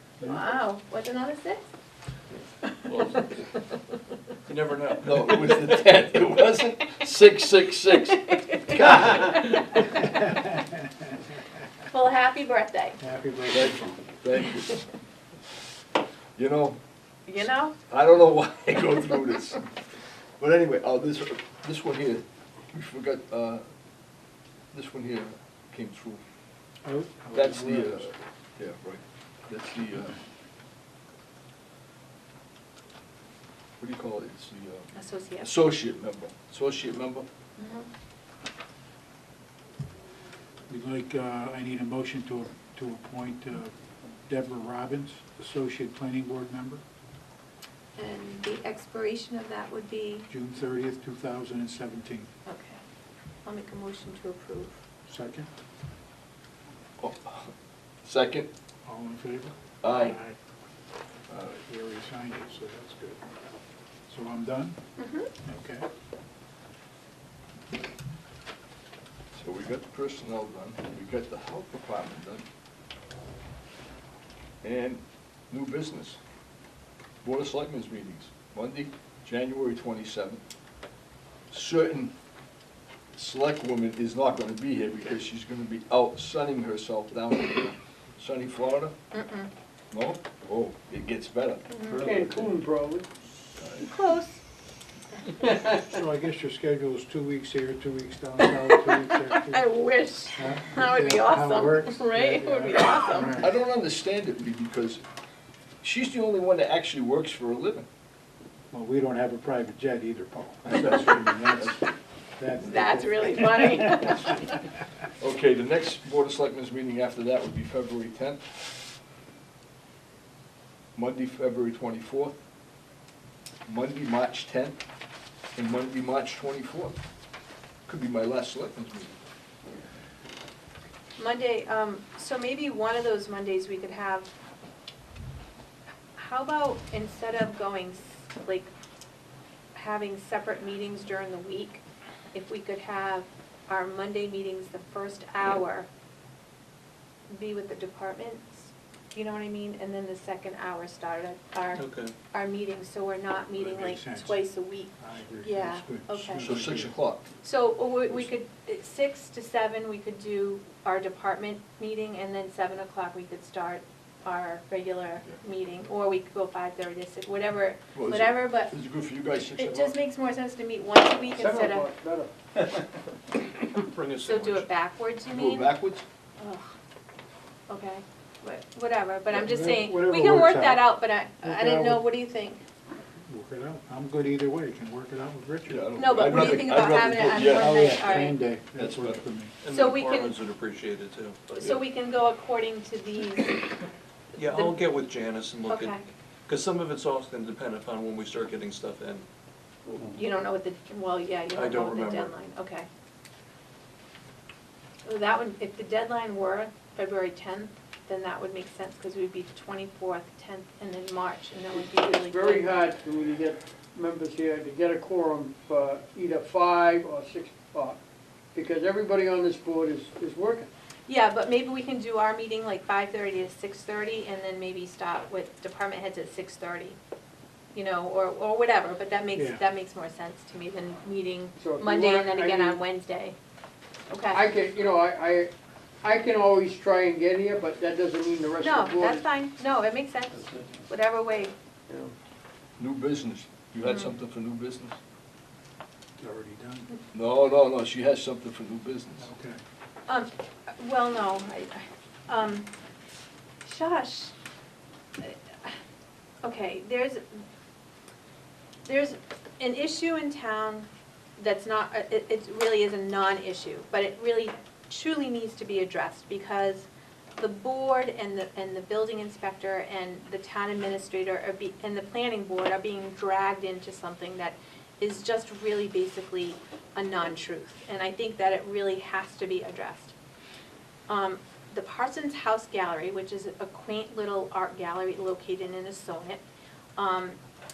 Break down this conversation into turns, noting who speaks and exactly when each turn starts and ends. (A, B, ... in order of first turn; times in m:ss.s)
0:00.2-0:01.6 A
0:02.9-0:03.2 B
0:04.4-0:05.8 B
0:05.0-0:09.4 C
0:08.1-0:09.6 A
0:10.0-0:10.9 D
0:11.9-0:13.0 A
0:13.0-0:14.0 D
0:13.5-0:14.8 C
0:16.4-0:16.8 C
0:17.2-0:17.8 A
0:17.9-0:19.6 C
0:20.4-0:23.6 C
0:24.7-0:26.2 C
0:26.8-0:28.1 D
0:27.3-0:28.0 C
0:28.6-0:30.2 C
0:33.8-0:34.9 C
0:34.9-0:35.5 A
0:35.4-0:37.3 C
0:37.6-0:37.9 A
0:40.7-0:43.7 D
0:44.2-0:46.8 D
0:48.0-0:50.3 A
0:50.3-0:52.3 D
0:52.4-0:52.8 A
0:53.4-0:54.8 A
0:55.1-0:55.5 D
0:57.0-0:57.5 C
0:58.0-0:58.5 C
0:58.8-1:00.4 D
0:59.8-1:00.1 A
0:59.8-1:00.2 B
1:01.6-1:03.2 D
1:04.1-1:04.8 D
1:05.0-1:05.3 A
1:05.4-1:05.8 D
1:09.3-1:12.4 C
1:14.6-1:16.2 C
1:17.2-1:20.4 C
1:21.5-1:22.1 C
1:23.1-1:28.9 C
1:29.1-1:29.5 A
1:29.9-1:31.7 C
1:31.7-1:32.1 A
1:31.9-1:32.4 B
1:32.0-1:33.1 E
1:33.6-1:33.8 C
1:33.8-1:34.4 A
1:35.2-1:35.6 A
1:35.5-1:35.9 E
1:35.8-1:39.6 D
1:38.4-1:43.5 A
1:40.4-1:43.6 D
1:43.4-1:45.0 C
1:45.8-1:47.8 C
1:48.7-1:54.5 D
1:52.6-1:54.5 A
1:55.2-1:58.4 C
2:01.0-2:02.4 C
2:03.6-2:04.8 C
2:05.6-2:07.0 C
2:07.9-2:09.2 C
2:11.2-2:14.3 A
2:16.2-2:18.7 A
2:19.7-2:21.8 A
2:22.3-2:25.9 A
2:27.3-2:36.5 A
2:31.8-2:32.1 B
2:33.5-2:36.9 D
2:36.4-2:37.3 C
2:37.4-2:48.7 A
2:47.9-2:49.9 C
2:49.6-2:51.9 A
2:51.3-2:52.3 E
2:53.8-2:54.6 C
2:53.9-2:54.5 B
2:54.2-2:55.7 A
2:55.3-2:56.0 C
2:56.4-2:56.7 A
2:57.7-3:02.6 A
2:59.3-3:02.1 D
3:03.2-3:06.4 D
3:05.7-3:06.6 C
3:06.0-3:08.4 A
3:06.0-3:07.8 B
3:07.4-3:09.5 D
3:08.8-3:11.4 B
3:09.7-3:10.4 A
3:11.5-3:13.6 A
3:14.3-3:14.8 A
3:14.4-3:15.9 B
3:14.4-3:15.7 C
3:15.7-3:16.0 A
3:16.5-3:18.6 C
3:16.5-3:19.2 B
3:19.8-3:22.9 A
3:21.6-3:22.2 C
3:21.8-3:22.2 B
3:25.0-3:32.7 A
3:31.7-3:38.0 E
3:38.5-3:40.7 E
3:41.1-3:47.0 A
3:47.7-3:53.3 A
3:49.3-3:49.6 D
3:51.6-3:52.8 E
3:54.1-3:54.4 A
3:54.3-3:55.5 E
3:56.0-3:59.2 E
3:58.6-4:01.5 A
4:01.9-4:02.1 E
4:02.8-4:05.0 C
4:03.8-4:04.1 A
4:06.2-4:06.9 D
4:07.1-4:09.2 C
4:09.2-4:09.6 D
4:10.1-4:12.7 A
4:13.6-4:14.3 A
4:15.2-4:15.7 A
4:16.4-4:17.4 A
4:18.8-4:40.1 A
4:41.1-4:46.4 A
4:47.0-4:47.4 A